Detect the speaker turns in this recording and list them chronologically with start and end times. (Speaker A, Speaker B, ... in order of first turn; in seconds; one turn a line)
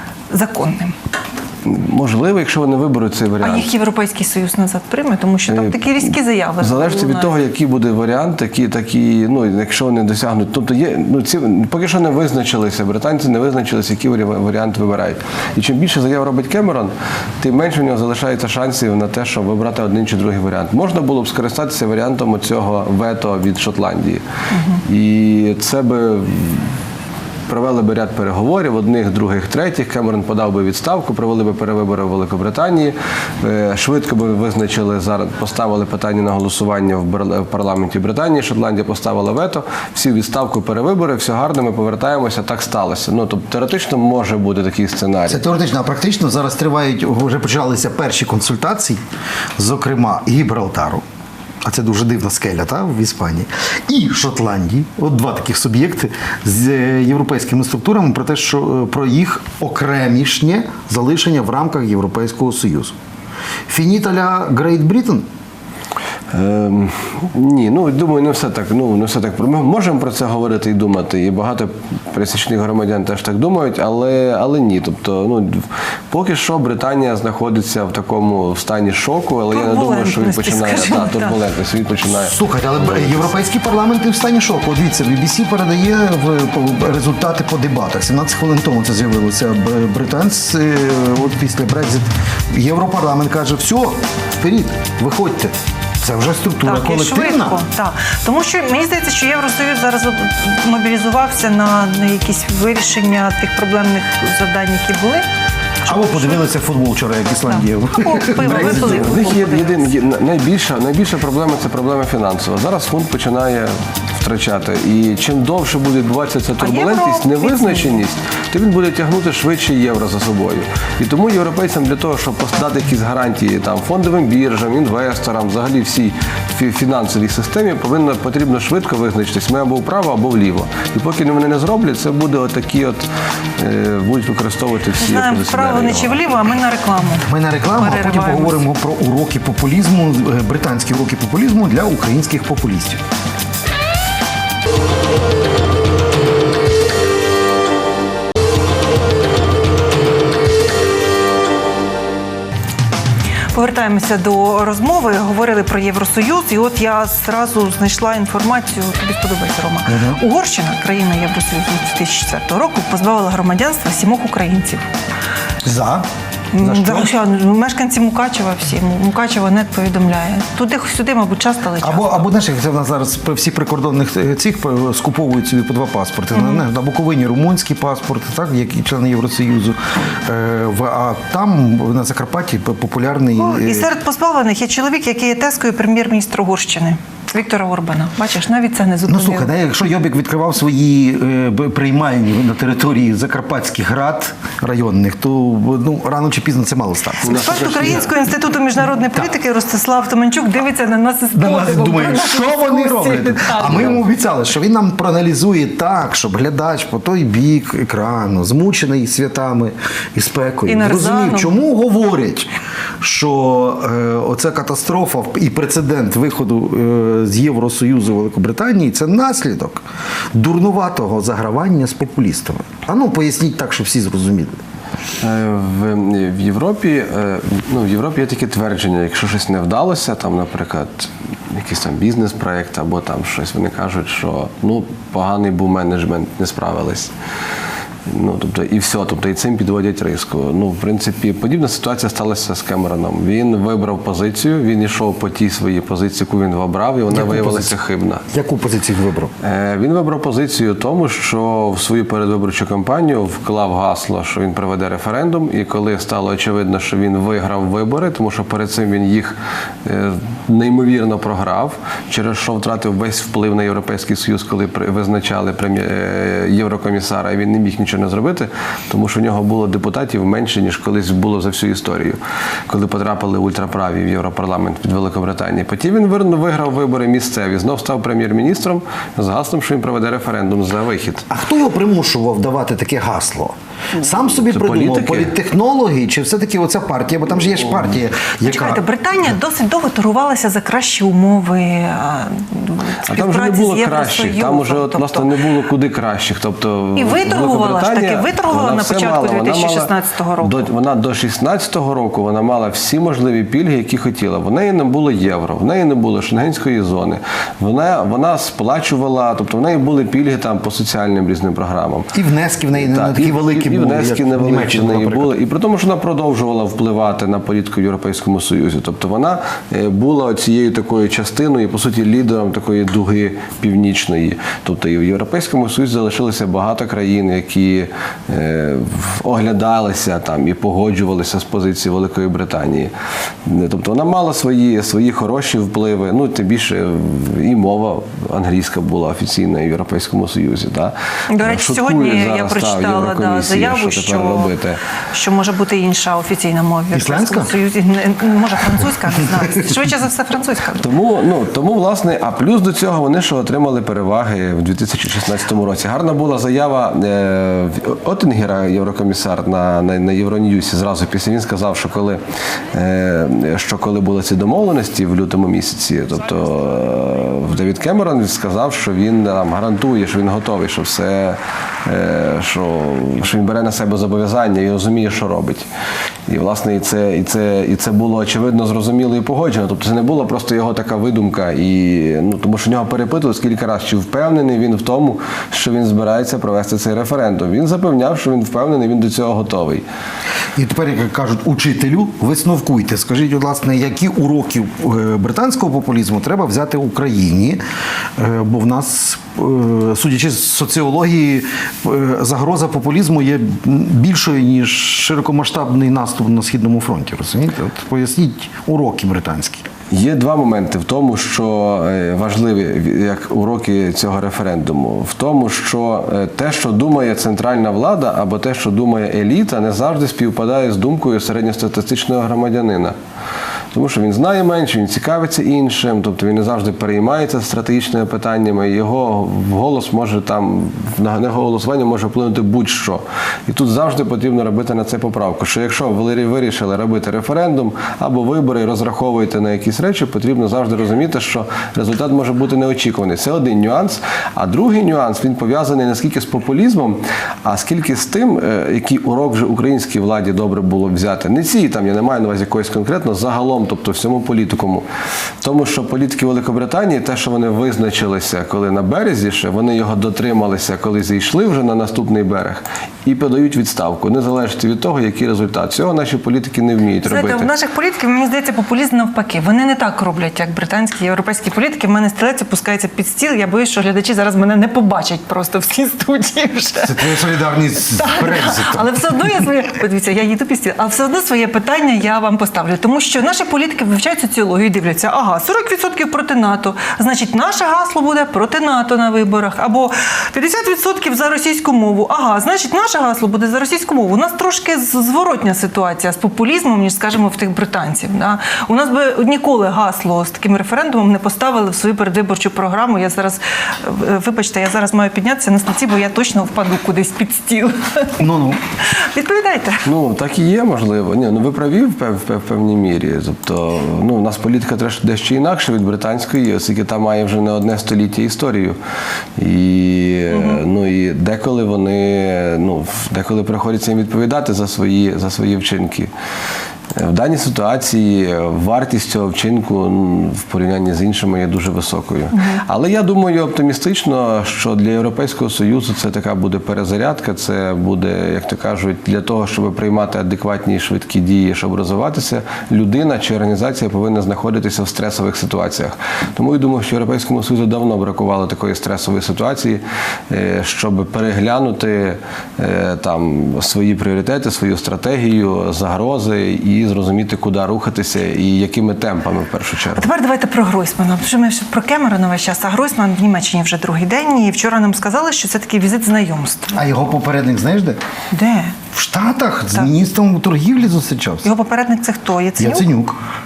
Speaker A: 0.3-0.9
Speaker B: 1.6-3.7
Speaker A: 3.4-7.3
Speaker B: 5.5-24.2
Speaker A: 24.5-24.8
Speaker B: 24.8-26.7
Speaker B: 27.5-45.4
Speaker C: 45.3-49.0
Speaker C: 49.6-51.0
Speaker C: 51.6-63.0
Speaker C: 63.7-65.3
Speaker B: 66.3-83.3
Speaker A: 79.5-81.4
Speaker C: 82.2-97.6
Speaker A: 96.7-105.2
Speaker A: 105.9-106.4
Speaker C: 105.9-109.2
Speaker A: 107.5-109.9
Speaker B: 108.5-133.1
Speaker A: 116.6-118.0
Speaker B: 133.6-136.5
Speaker A: 135.0-138.6
Speaker C: 137.3-143.0
Speaker A: 153.5-164.9
Speaker C: 159.9-160.2
Speaker C: 165.6-166.1
Speaker A: 166.5-172.3
Speaker C: 166.6-167.1
Speaker C: 171.8-183.9
Speaker A: 176.3-176.6
Speaker A: 183.4-189.5
Speaker C: 189.1-198.1
Speaker B: 197.2-198.1
Speaker A: 197.2-204.0
Speaker C: 201.3-224.6
Speaker B: 203.6-204.0
Speaker A: 210.7-211.6
Speaker B: 225.2-237.1
Speaker B: 238.1-248.2
Speaker C: 247.1-247.8
Speaker C: 248.3-249.3
Speaker B: 249.4-281.3
Speaker C: 281.3-288.8
Speaker B: 284.4-285.3
Speaker A: 288.4-295.3
Speaker B: 293.1-312.1
Speaker A: 297.0-300.7
Speaker C: 312.1-315.3
Speaker B: 312.8-332.9
Speaker B: 333.4-344.8
Speaker A: 341.3-344.5
Speaker A: 345.1-350.9
Speaker C: 346.9-347.6
Speaker B: 350.8-362.2
Speaker B: 362.7-375.7
Speaker B: 376.3-389.8
Speaker C: 390.6-397.6
Speaker C: 398.2-409.7
Speaker B: 409.9-422.9
Speaker B: 423.7-454.9
Speaker B: 455.4-467.5
Speaker A: 467.0-477.2
Speaker C: 476.8-479.4
Speaker A: 477.9-508.2
Speaker C: 508.2-508.6
Speaker A: 508.8-509.9
Speaker B: 509.9-518.8
Speaker B: 519.4-526.1
Speaker A: 520.3-520.6
Speaker B: 526.9-560.1
Speaker A: 532.3-532.6
Speaker A: 560.0-566.8
Speaker C: 566.7-568.0
Speaker A: 568.3-568.8
Speaker C: 568.9-571.5
Speaker A: 571.4-572.9
Speaker C: 572.6-573.2